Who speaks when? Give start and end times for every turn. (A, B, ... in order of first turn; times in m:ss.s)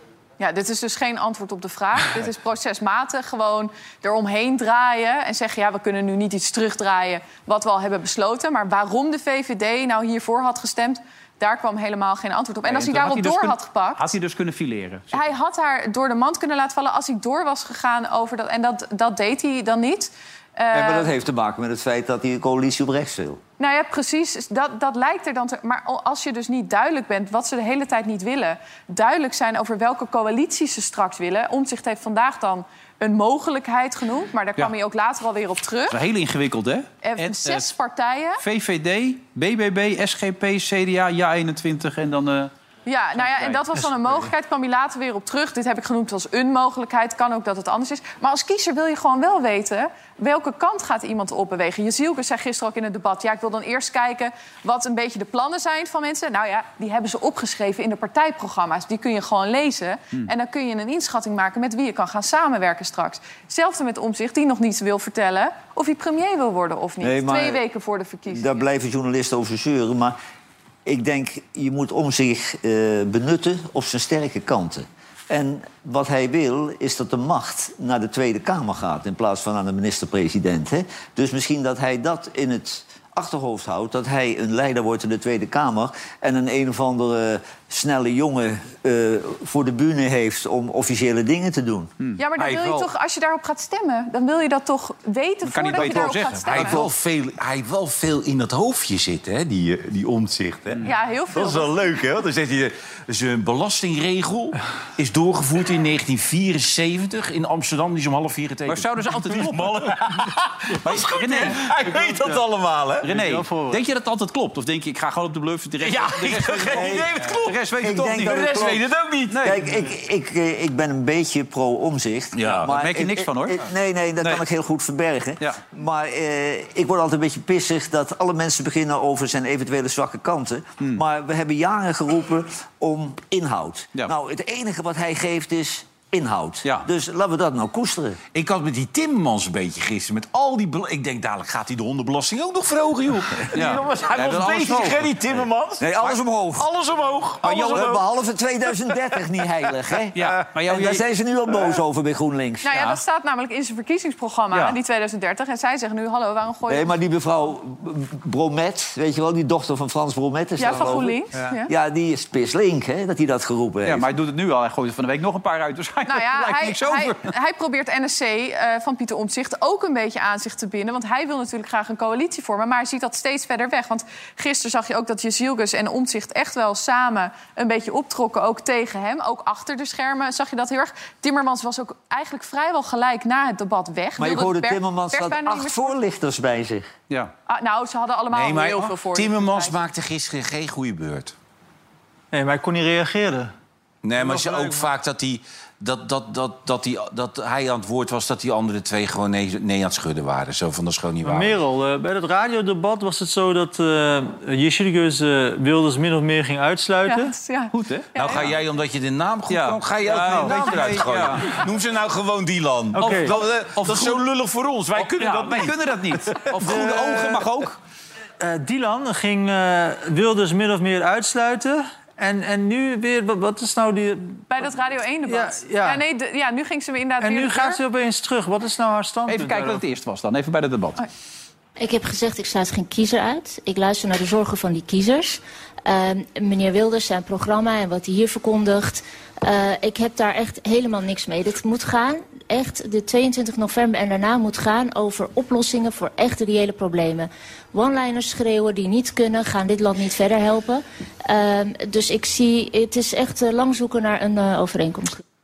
0:00.4-0:14.1 A
0:12.6-0:15.4 B
0:15.1-0:21.1 A
0:20.7-0:23.4 C
0:23.6-0:36.0 A
0:35.9-0:37.7 B
0:37.0-0:38.4 A
0:38.4-0:42.5 B
0:42.8-1:08.6 A
0:43.1-0:44.3 B
1:07.0-1:07.6 C
1:08.3-1:10.2 C
1:10.8-1:31.9 C
1:32.0-1:32.9 B
1:32.2-1:36.8 A
1:35.4-1:36.8 B
1:36.5-1:40.8 D
1:36.6-1:36.9 C
1:40.8-1:41.9 A
1:41.3-1:53.1 D
1:48.7-1:49.9 B
1:50.8-1:51.6 B
1:51.6-1:52.4 E
1:53.0-1:58.6 B
1:53.0-1:53.8 E
1:55.8-1:59.5 D
1:56.7-1:57.1 C
1:57.8-1:58.8 C
1:59.3-1:59.6 B
1:59.4-2:18.2 C
2:02.3-2:02.7 D
2:02.6-2:03.6 B
2:18.3-2:28.0 D
2:23.5-2:25.1 B
2:25.8-2:26.7 C
2:27.4-2:32.7 C
2:27.4-2:28.0 B
2:30.1-2:31.0 B
2:32.6-2:37.0 A
2:32.7-2:33.0 B
2:34.5-2:34.8 B
2:36.7-2:44.1 C
2:40.6-2:41.7 A
2:43.8-2:47.3 B
2:46.1-3:06.0 A
3:04.2-3:06.9 C
3:07.5-3:09.8 A
3:08.3-3:11.3 D
3:12.3-3:13.5 E
3:14.0-3:21.6 D
3:14.2-3:14.9 E
3:21.2-3:27.3 E
3:27.0-3:28.5 A
3:27.7-3:28.4 B
3:28.2-3:36.8 D
3:29.5-3:31.5 B
3:30.0-3:31.0 E
3:32.9-3:33.3 E
3:33.0-3:34.2 B
3:35.0-3:37.8 B
3:36.6-3:37.4 E
3:38.4-3:44.4 E
3:44.5-3:47.8 A
3:45.2-3:46.0 E
3:47.2-3:49.8 E
3:49.3-3:51.0 B
3:51.8-4:15.2 F